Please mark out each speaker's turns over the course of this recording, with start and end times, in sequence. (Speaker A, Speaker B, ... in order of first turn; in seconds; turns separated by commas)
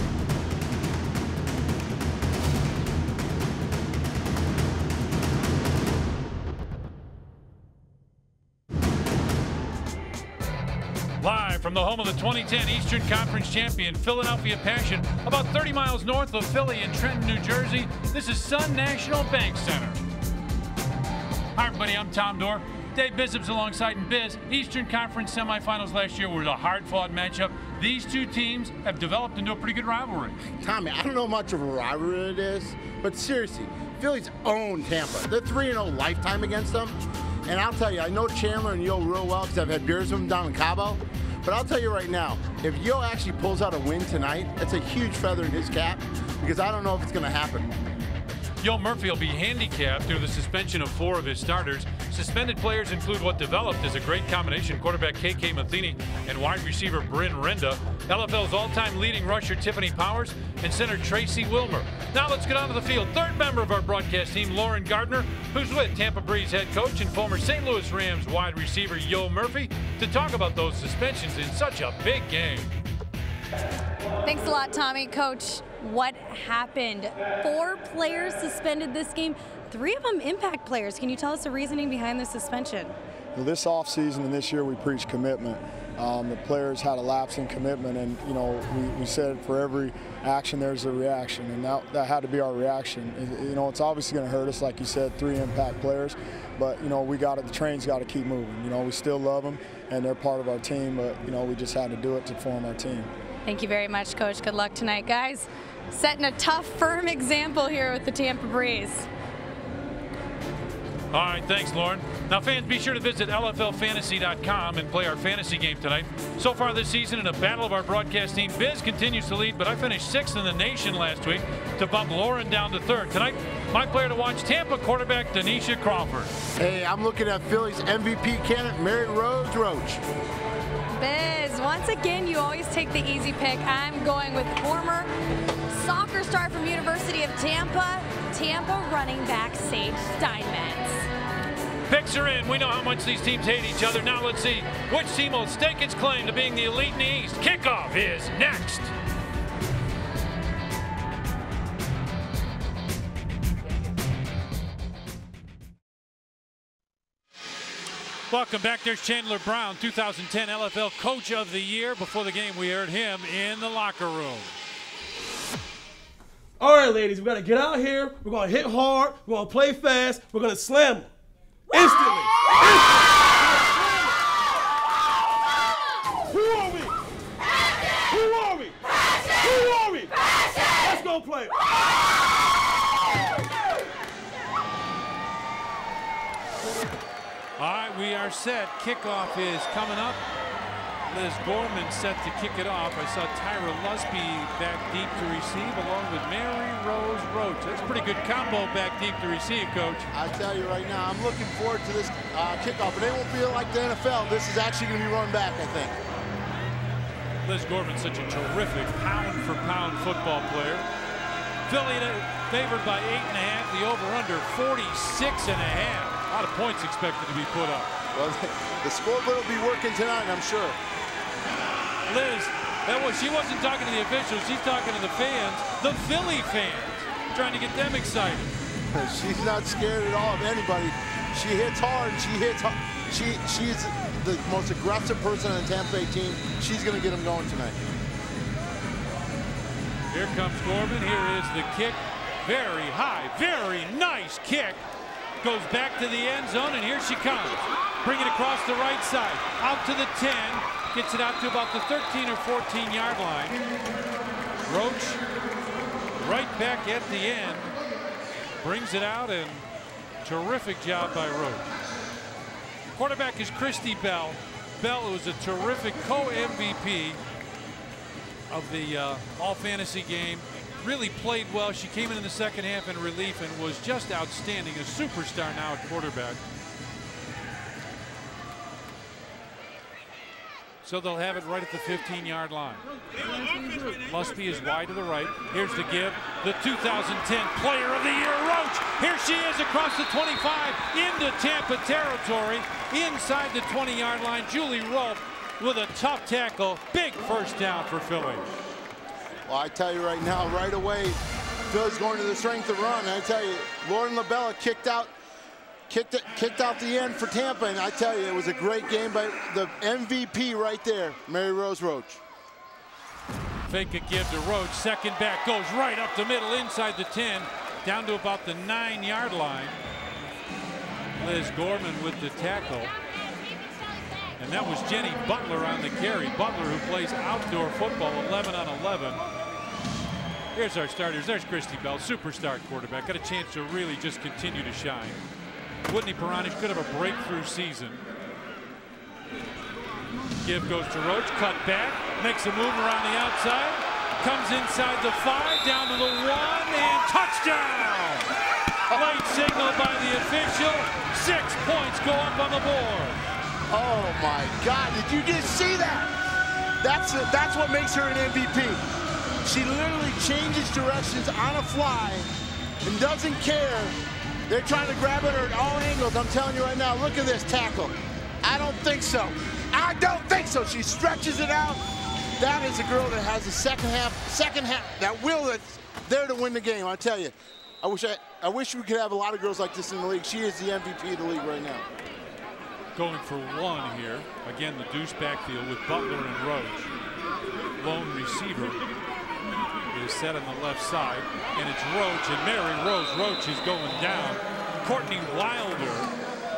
Speaker A: 11.2-20.0, Speaker A: 21.6-30.4, Speaker B: 30.6-47.8, Speaker A: 48.6-72.7, Speaker C: 74.2-83.0, Speaker D: 83.3-103.1, Speaker C: 103.4-109.1, Speaker A: 111.1-126.3, Speaker B: 126.5-130.0, Speaker C: 130.9-135.1, Speaker C: 135.7-141.1, Speaker A: 141.9-148.9, Speaker A: 158.3-164.5, Speaker E: 166.6-171.1, Speaker E: 171.7-173.0, Speaker E: 176.3-176.9, Speaker E: 178.1-178.8, Speaker E: 179.3-180.2, Speaker E: 180.7-181.6, Speaker A: 187.6-190.2, Speaker A: 191.1-200.1, Speaker B: 200.1-206.0, Speaker A: 207.4-210.8, Speaker A: 211.7-217.9, Speaker B: 218.1-220.8, Speaker A: 222.1-228.5, Speaker B: 228.9-237.8, Speaker A: 240.1-244.8, Speaker A: 245.4-253.6, Speaker A: 254.7-255.2, Speaker A: 256.2-257.7, Speaker A: 258.6-259.7, Speaker A: 260.2-261.7, Speaker A: 262.9-267.2, Speaker A: 268.5-276.4, Speaker A: 280.8-282.8, Speaker A: 284.1-298.5, Speaker B: 299.5-305.1, Speaker B: 305.9-312.2, Speaker A: 313.7-319.8, Speaker A: 321.2-322.9, Speaker A: 324.4-329.2, Speaker A: 330.5-335.2, Speaker A: 335.9-338.0, Speaker A: 340.4-348.3, Speaker A: 348.9-353.2, Speaker B: 353.7-356.1, Speaker B: 356.8-358.8, Speaker B: 359.4-362.3, Speaker B: 362.8-363.9, Speaker B: 364.5-371.8, Speaker B: 372.4-381.8, Speaker A: 382.9-386.9, Speaker A: 387.8-388.8, Speaker A: 389.9-396.1